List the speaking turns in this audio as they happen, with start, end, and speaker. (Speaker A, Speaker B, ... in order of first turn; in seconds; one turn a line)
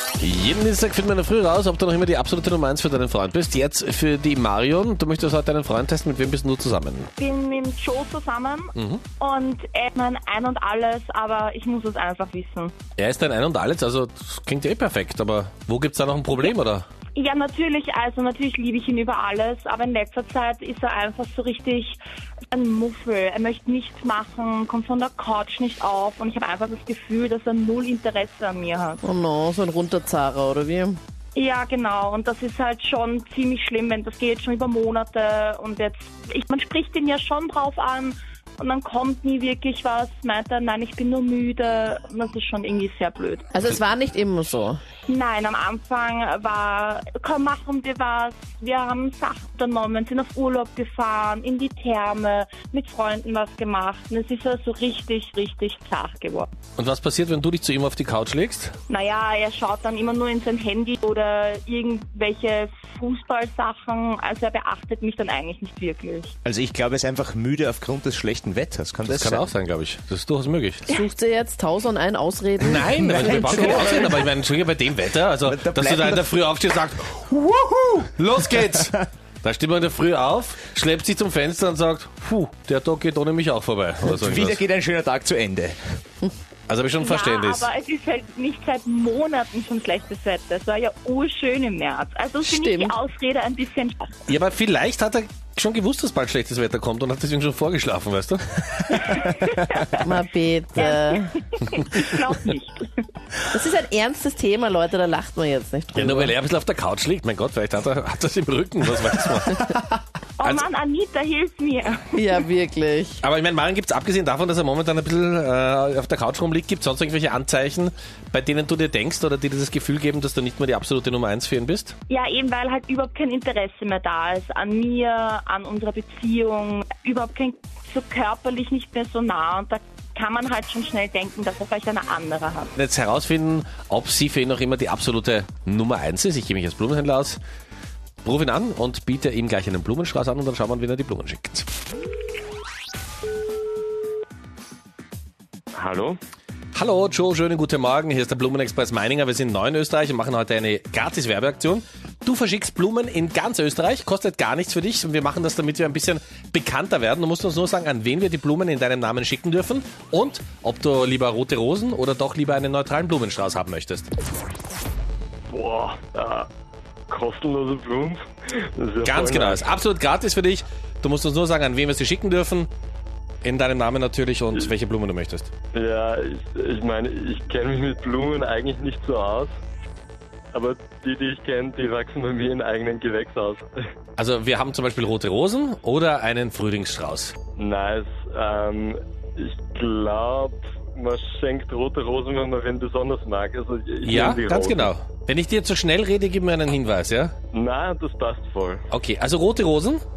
Speaker A: 0.2-7.1
Speaker B: 7.2-12.7
Speaker A: 8.8-9.0
Speaker A: 13.0-16.8
Speaker B: 17.1-22.0
Speaker B: 22.5-29.0
Speaker C: 29.0-31.0
Speaker B: 31.3-43.5
Speaker C: 43.5-44.8
Speaker B: 45.1-56.5
Speaker A: 56.8-58.7
Speaker B: 58.9-66.3
Speaker D: 66.4-69.5
Speaker A: 69.0-70.8
Speaker C: 70.9-73.9
Speaker A: 72.6-84.6
Speaker D: 73.2-74.0
Speaker D: 75.4-76.3
Speaker D: 77.5-78.0
Speaker D: 84.0-85.8
Speaker A: 86.7-87.7
Speaker B: 87.0-94.2
Speaker C: 92.4-92.9
Speaker A: 94.3-99.1
Speaker B: 98.9-100.0
Speaker C: 100.0-101.4
Speaker B: 100.7-102.9
Speaker C: 103.5-106.3
Speaker A: 105.9-109.8
Speaker B: 110.4-112.4
Speaker C: 112.1-113.2
Speaker A: 113.2-122.0
Speaker B: 122.1-132.7
Speaker A: 132.8-137.4
Speaker A: 138.2-141.7
Speaker E: 145.7-146.2
Speaker A: 146.7-164.1
Speaker E: 165.5-166.5
Speaker E: 167.1-169.7
Speaker A: 169.0-172.7
Speaker A: 173.4-175.5
Speaker E: 175.7-179.6
Speaker E: 180.5-183.7
Speaker A: 184.2-187.3
Speaker E: 187.6-194.9
Speaker A: 194.0-197.3
Speaker E: 197.5-198.8
Speaker A: 198.9-200.0